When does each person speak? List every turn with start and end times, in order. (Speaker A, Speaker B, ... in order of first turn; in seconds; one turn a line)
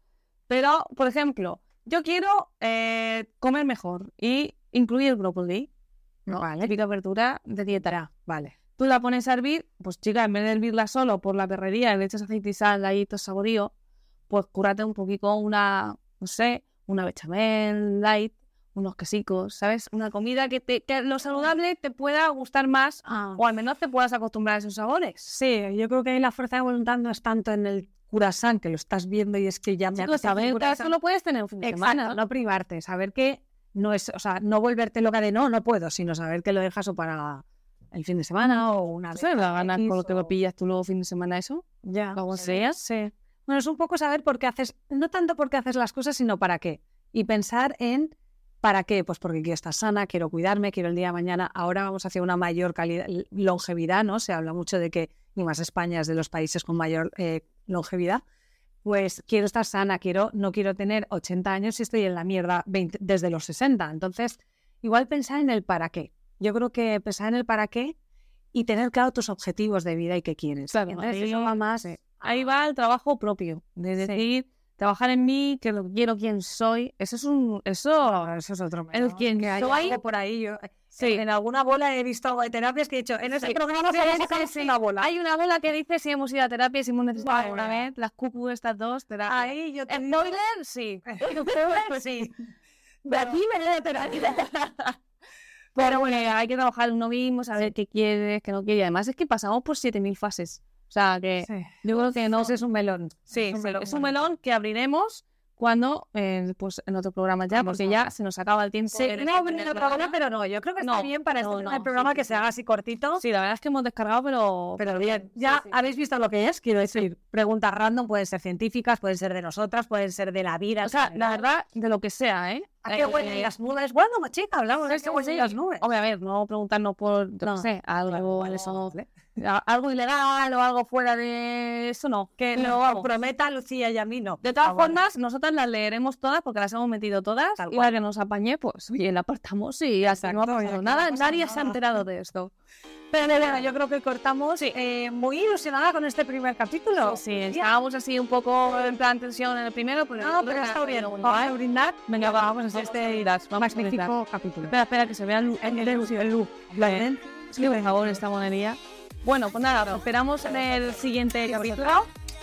Speaker A: 0.5-5.7
Speaker B: 6.3-6.7
Speaker A: 6.4-7.9
Speaker B: 7.7-8.5
Speaker A: 8.8-13.7
Speaker A: 14.3-25.3
Speaker B: 23.0-23.4
Speaker B: 25.3-30.9
Speaker A: 29.9-32.2
Speaker B: 31.6-40.3
Speaker A: 39.1-42.8
Speaker B: 41.8-48.1
Speaker B: 48.6-58.2
Speaker B: 58.8-68.0
Speaker B: 68.5-72.4
Speaker A: 70.7-78.3
Speaker B: 78.0-85.1
Speaker A: 78.9-80.0
Speaker A: 83.3-92.2
Speaker B: 87.2-87.8
Speaker B: 89.3-90.3
Speaker B: 91.0-92.3
Speaker A: 93.0-95.0
Speaker A: 95.8-102.5
Speaker B: 101.4-101.7
Speaker B: 102.3-104.1
Speaker A: 103.3-110.2
Speaker B: 107.5-108.1
Speaker B: 108.9-113.2
Speaker A: 110.8-112.4
Speaker A: 113.2-115.7
Speaker B: 114.8-121.4
Speaker A: 120.8-123.5
Speaker B: 122.9-125.9
Speaker A: 124.9-133.1
Speaker B: 127.4-129.1
Speaker B: 132.4-135.0
Speaker A: 134.4-142.5
Speaker B: 137.6-137.9
Speaker B: 140.1-141.8
Speaker B: 143.1-147.7
Speaker A: 147.0-151.5
Speaker B: 150.2-154.7
Speaker A: 152.1-154.1
Speaker A: 154.6-162.1
Speaker B: 155.6-158.2
Speaker B: 161.5-162.0